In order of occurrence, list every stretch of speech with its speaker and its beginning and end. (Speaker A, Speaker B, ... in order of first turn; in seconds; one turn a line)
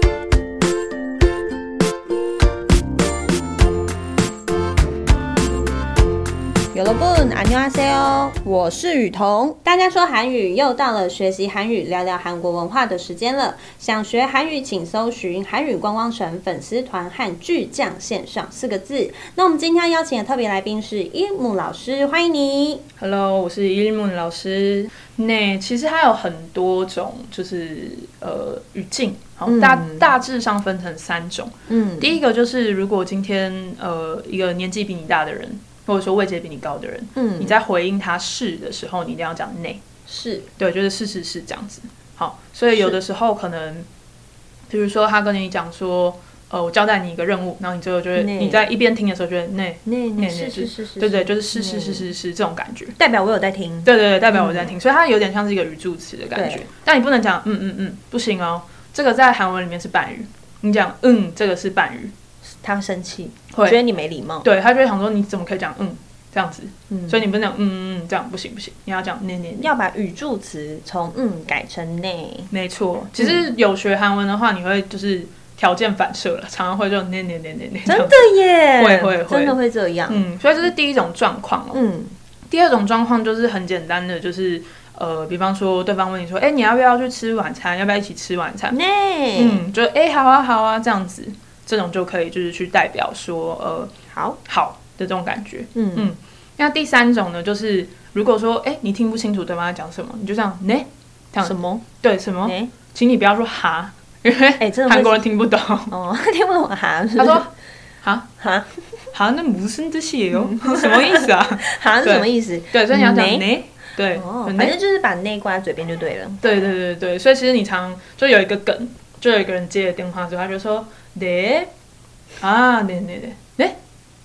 Speaker A: 6.7-22.8
Speaker B: 23.0-39.8
Speaker A: 29.5-30.1
Speaker A: 31.7-32.2
Speaker A: 37.2-37.6
Speaker A: 40.1-40.5
Speaker B: 40.6-43.9
Speaker A: 42.7-43.0
Speaker B: 44.7-53.0
Speaker A: 48.2-48.6
Speaker A: 49.9-52.1
Speaker A: 53.0-54.7
Speaker B: 53.9-62.1
Speaker A: 56.4-56.7
Speaker A: 62.6-64.5
Speaker B: 64.4-69.7
Speaker A: 66.9-67.2
Speaker A: 69.6-72.5
Speaker B: 72.5-78.2
Speaker A: 73.2-73.4
Speaker A: 77.9-80.2
Speaker B: 78.8-79.6
Speaker B: 80.1-81.8
Speaker A: 81.7-82.1
Speaker B: 82.5-88.8
Speaker A: 88.7-89.6
Speaker B: 89.3-93.9
Speaker A: 94.1-94.4
Speaker B: 94.5-105.9
Speaker A: 95.8-96.1
Speaker A: 101.4-101.9
Speaker A: 102.4-102.7
Speaker A: 104.6-105.3
Speaker A: 105.9-107.5
Speaker B: 107.2-107.5
Speaker A: 108.4-109.1
Speaker B: 109.1-114.8
Speaker A: 110.3-113.5
Speaker A: 114.2-116.4
Speaker B: 116.4-121.7
Speaker B: 122.4-123.8